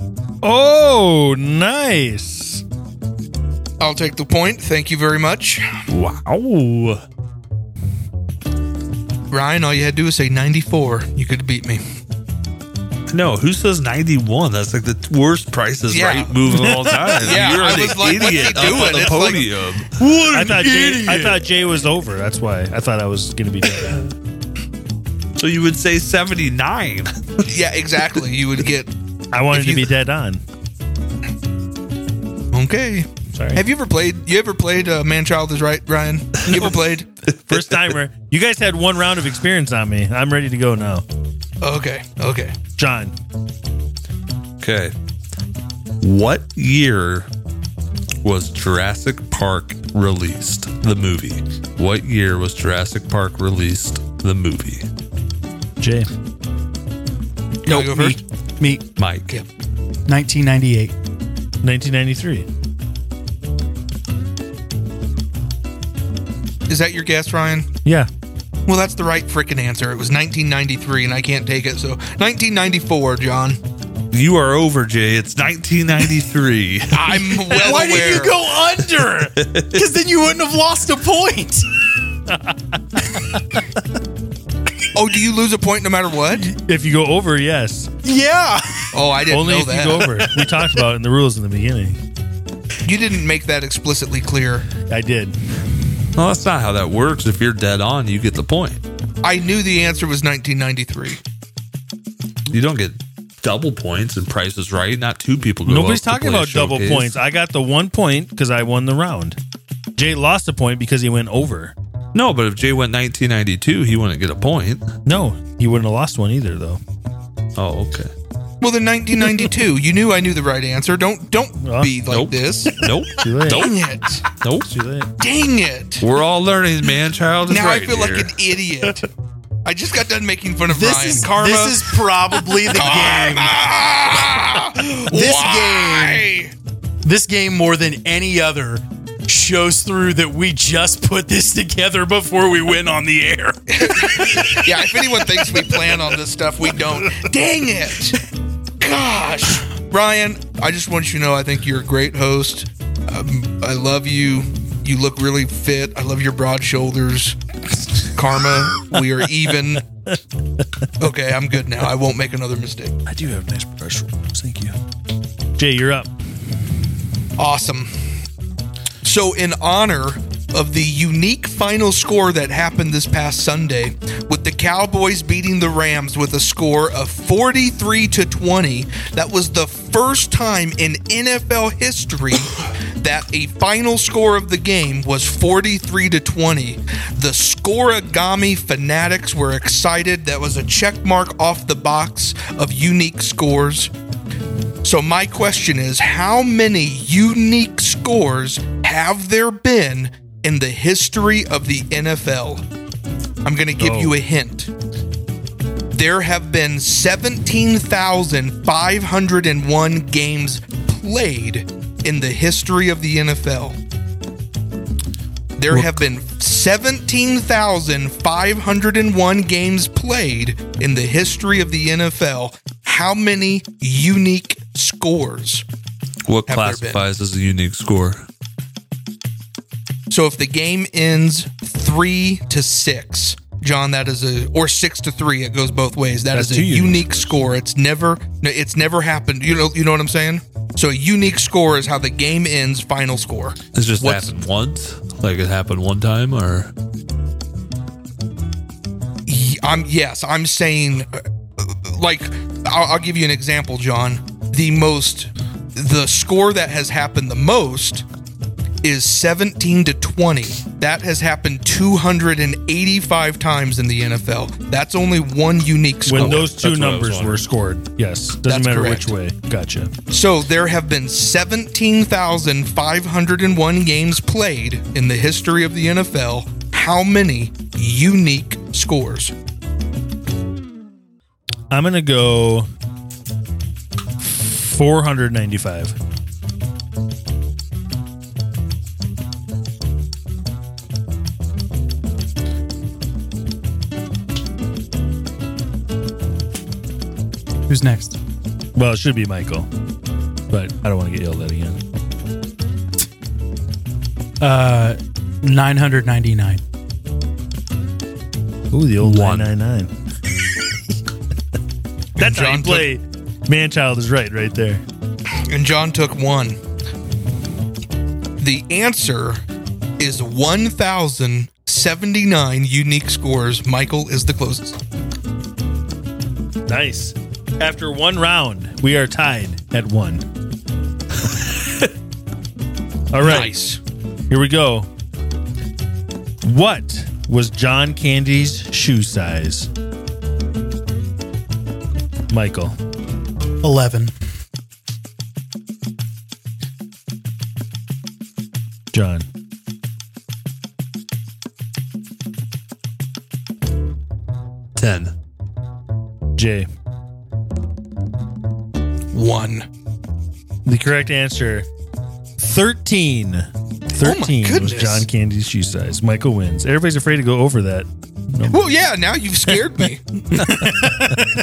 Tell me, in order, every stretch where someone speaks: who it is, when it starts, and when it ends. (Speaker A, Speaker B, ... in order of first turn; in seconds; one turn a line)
Speaker A: 0.4-2.6
Speaker B: 3.8-5.8
Speaker C: 5.9-7.0
Speaker B: 9.3-11.8
Speaker C: 13.1-19.9
Speaker B: 15.9-16.4
Speaker A: 16.5-17.2
Speaker B: 17.2-19.5
Speaker D: 20.0-21.4
Speaker A: 20.3-24.1
Speaker C: 25.4-27.4
Speaker B: 27.4-28.9
Speaker A: 29.3-30.4
Speaker B: 29.5-29.9
Speaker B: 32.5-37.1
Speaker A: 33.3-33.6
Speaker A: 37.5-41.0
Speaker B: 41.6-42.6
Speaker A: 42.8-43.1
Speaker C: 44.6-44.9
Speaker C: 46.0-47.3
Speaker C: 48.2-54.9
Speaker A: 55.8-56.1
Speaker B: 57.6-58.2
Speaker D: 57.6-58.8
Speaker C: 59.0-59.3
Speaker D: 60.1-60.9
Speaker A: 61.6-62.5
Speaker B: 66.7-67.7
Speaker B: 68.7-73.6
Speaker C: 74.1-77.2
Speaker B: 76.9-78.3
Speaker D: 77.3-81.7
Speaker C: 79.4-79.8
Speaker A: 82.3-83.0
Speaker B: 84.9-86.5
Speaker A: 86.3-87.9
Speaker D: 88.0-89.0
Speaker B: 88.9-90.5
Speaker A: 89.3-92.0
Speaker B: 92.8-94.7
Speaker A: 94.9-95.3
Speaker C: 96.2-98.8
Speaker B: 99.2-101.2
Speaker C: 102.5-107.1
Speaker A: 105.7-109.4
Speaker A: 110.0-111.7
Speaker C: 112.1-114.8
Speaker A: 115.0-116.8
Speaker C: 117.5-118.1
Speaker B: 118.6-122.7
Speaker A: 121.6-122.0
Speaker C: 122.1-123.7
Speaker A: 123.1-123.7
Speaker B: 123.4-124.2
Speaker C: 124.4-124.7
Speaker A: 124.7-125.1
Speaker B: 125.2-126.1
Speaker C: 126.0-128.3
Speaker B: 127.5-129.1
Speaker B: 129.6-131.9
Speaker D: 130.7-133.7
Speaker B: 132.7-136.5
Speaker D: 134.9-136.3
Speaker D: 137.0-145.0
Speaker B: 143.7-148.2
Speaker B: 148.8-157.4
Speaker B: 157.9-159.8
Speaker B: 161.0-162.9
Speaker A: 163.1-164.8
Speaker A: 165.6-166.1
Speaker B: 167.4-168.2
Speaker B: 169.0-193.9
Speaker B: 194.8-202.6
Speaker B: 203.4-204.7
Speaker A: 203.8-204.2
Speaker B: 205.9-213.8
Speaker B: 215.6-225.6
Speaker C: 226.2-228.3
Speaker B: 226.5-227.0
Speaker B: 230.1-244.3
Speaker A: 236.3-237.3
Speaker C: 243.7-246.7
Speaker B: 249.3-258.0
Speaker B: 258.8-266.5
Speaker A: 266.0-269.9
Speaker C: 266.1-267.4
Speaker B: 268.4-269.1
Speaker B: 270.1-279.3
Speaker A: 281.7-282.7
Speaker A: 284.2-285.9
Speaker D: 297.7-298.1
Speaker A: 298.7-299.7
Speaker A: 300.5-301.8
Speaker D: 304.4-306.6
Speaker A: 308.7-309.9
Speaker C: 309.0-309.5
Speaker B: 312.2-312.9
Speaker A: 312.2-314.8
Speaker B: 315.5-316.6
Speaker B: 318.4-319.4
Speaker B: 320.0-324.8
Speaker A: 326.7-330.2
Speaker A: 333.1-333.5
Speaker B: 333.2-333.8
Speaker A: 334.3-334.9
Speaker A: 336.4-339.7
Speaker A: 342.3-342.8
Speaker D: 343.6-344.1
Speaker A: 348.9-349.3
Speaker C: 354.8-355.1
Speaker A: 356.4-356.7
Speaker B: 359.1-359.7
Speaker A: 360.6-361.7
Speaker A: 362.4-368.7
Speaker B: 364.0-365.1
Speaker B: 368.5-370.9
Speaker A: 370.4-371.1